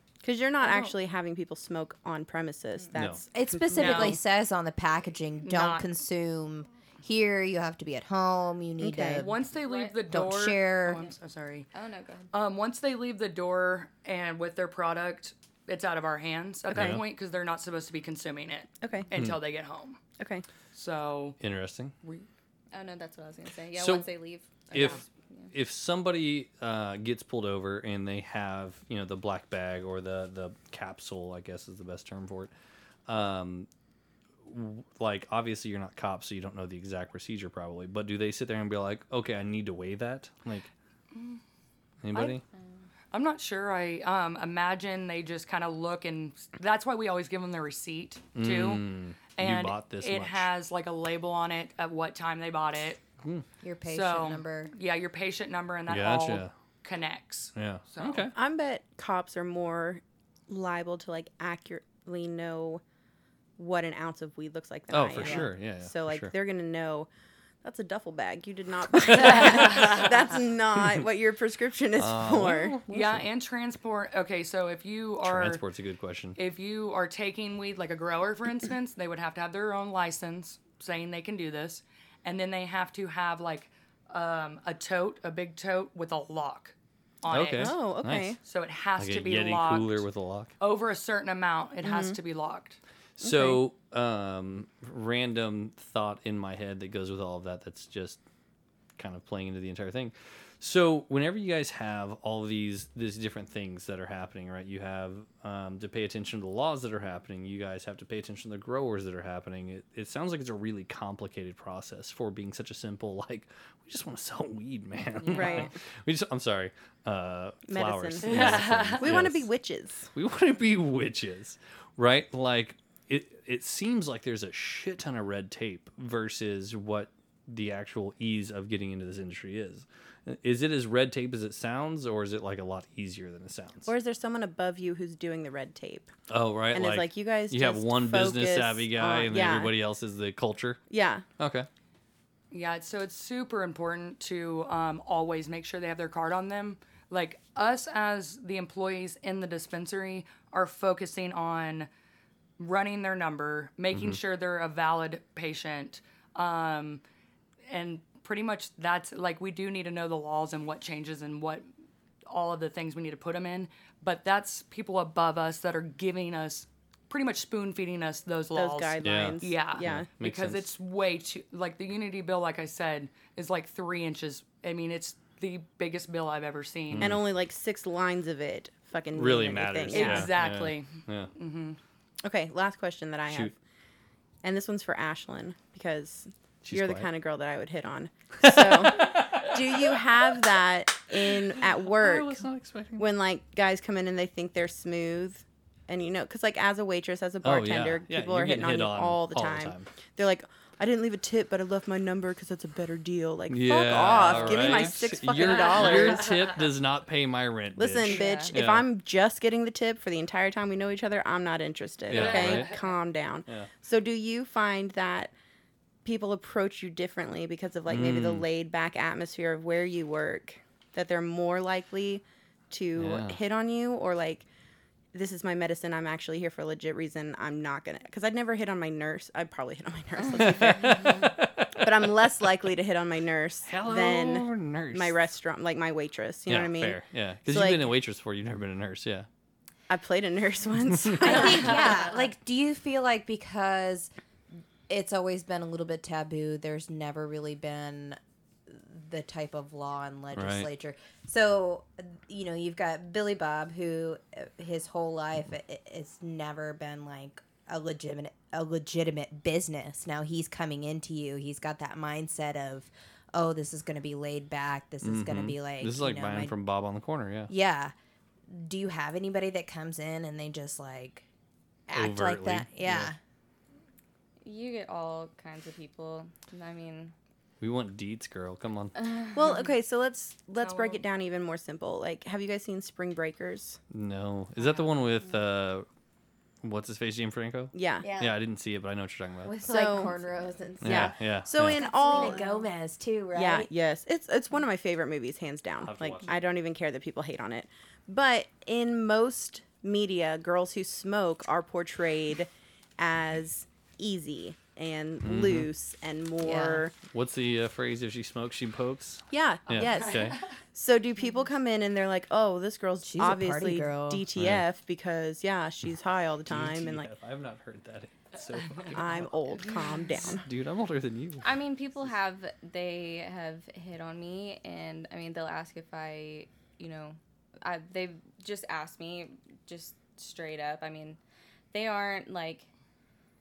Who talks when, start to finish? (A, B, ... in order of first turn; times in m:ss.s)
0:00.2-0:04.2 A
0:00.6-0:01.0 B
0:02.9-0:03.2 C
0:03.3-0:09.3 D
0:03.7-0:04.2 B
0:05.4-0:05.9 B
0:08.8-0:09.3 A
0:09.1-0:11.7 B
0:09.6-0:09.9 E
0:10.1-0:11.0 D
0:11.7-0:12.3 E
0:12.3-0:20.0 B
0:16.7-0:17.0 C
0:16.7-0:17.0 A
0:18.8-0:19.1 A
0:20.2-0:20.4 A
0:20.7-0:21.4 B
0:21.4-0:21.9 C
0:22.7-0:25.5 E
0:23.7-0:24.1 C
0:24.7-0:25.0 C
0:24.7-0:25.0 B
0:25.5-0:32.5 C
0:33.1-0:33.7 C
0:34.4-0:40.7 C
0:41.1-0:41.4 B
0:42.0-0:42.4 C
0:43.1-0:53.0 B
0:48.3-0:50.5 C
0:53.6-0:54.7 D
0:53.8-0:58.3 B
0:55.9-0:56.5 C
0:57.5-0:58.3 C
0:58.3-1:02.8 A
1:03.6-1:07.1 A
1:04.9-1:06.3 C
1:07.6-1:12.8 A
1:09.3-1:10.1 B
1:12.0-1:13.2 C
1:12.9-1:15.6 B
1:15.2-1:16.4 C
1:16.4-1:27.8 B
1:27.3-1:28.4 C
1:27.6-1:28.4 A
1:28.4-1:30.0 B
1:29.0-1:30.5 C
1:30.6-1:32.8 B
1:31.8-1:32.2 A
1:33.2-1:38.2 C
1:33.2-1:33.6 A
1:39.0-1:59.5 C
1:55.2-1:55.7 E
1:55.3-1:55.7 A
1:57.7-2:00.1 A
1:58.2-1:59.1 B
2:00.1-2:13.9 C
2:13.8-2:16.1 A
2:16.3-2:20.8 C
2:16.7-2:19.7 A
2:20.9-2:21.2 A
2:21.4-2:21.7 C
2:22.5-2:31.9 B
2:32.6-2:37.0 B
2:33.9-2:34.2 C
2:37.7-2:41.6 B
2:42.3-2:57.1 B
2:48.5-2:50.1 A
2:49.0-2:50.6 C
2:56.9-2:57.2 C
2:57.0-3:00.3 A
2:59.1-3:01.3 C
2:59.9-3:01.8 B
3:02.2-3:03.5 A
3:03.3-3:03.5 C
3:04.4-3:12.4 A
3:06.6-3:07.1 C
3:08.4-3:10.0 C
3:11.6-3:13.1 C
3:13.0-3:26.4 A
3:17.4-3:19.9 C
3:23.5-3:28.8 C
3:24.2-3:24.8 B
3:25.6-3:26.1 B
3:27.8-3:35.3 A
3:28.0-3:28.5 E
3:32.1-3:32.7 C
3:32.1-3:32.9 B
3:36.0-3:44.4 A
3:37.9-3:38.4 C
3:43.0-3:43.4 C
3:45.1-3:57.9 A
3:50.3-3:52.3 C
3:50.6-3:51.2 E
3:53.6-3:55.2 C
3:56.5-3:59.3 C
3:59.9-4:02.2 A
4:01.0-4:01.3 C
4:01.2-4:04.1 D
4:04.9-4:26.5 D
4:10.3-4:10.7 C
4:25.0-4:27.5 C
4:27.5-4:27.9 D
4:28.5-4:31.2 D
4:31.9-4:33.2 D
4:31.9-4:33.1 C
4:34.4-4:37.1 E
4:37.6-4:39.1 C
4:39.0-4:39.7 E
4:39.3-4:43.8 A
4:40.6-4:41.0 B
4:43.9-4:45.8 C
4:46.6-4:49.6 C
4:47.7-4:48.1 A
4:48.0-4:48.3 D
4:49.4-4:51.1 D
4:49.6-4:50.2 A
4:50.8-4:51.9 C
4:50.8-4:52.5 A
4:51.8-4:53.7 D
4:51.8-4:52.6 E
4:53.3-5:07.0 A
4:55.8-4:56.3 C
5:05.2-5:05.7 C
5:06.4-5:06.8 D
5:07.0-5:10.4 C
5:09.3-5:17.1 A
5:09.8-5:10.4 B
5:13.0-5:14.2 D
5:14.4-5:14.6 C
5:16.5-5:19.3 C
5:18.6-5:18.9 B
5:18.9-5:20.4 A
5:20.2-5:21.6 C
5:21.4-5:31.2 E
5:31.7-5:32.7 E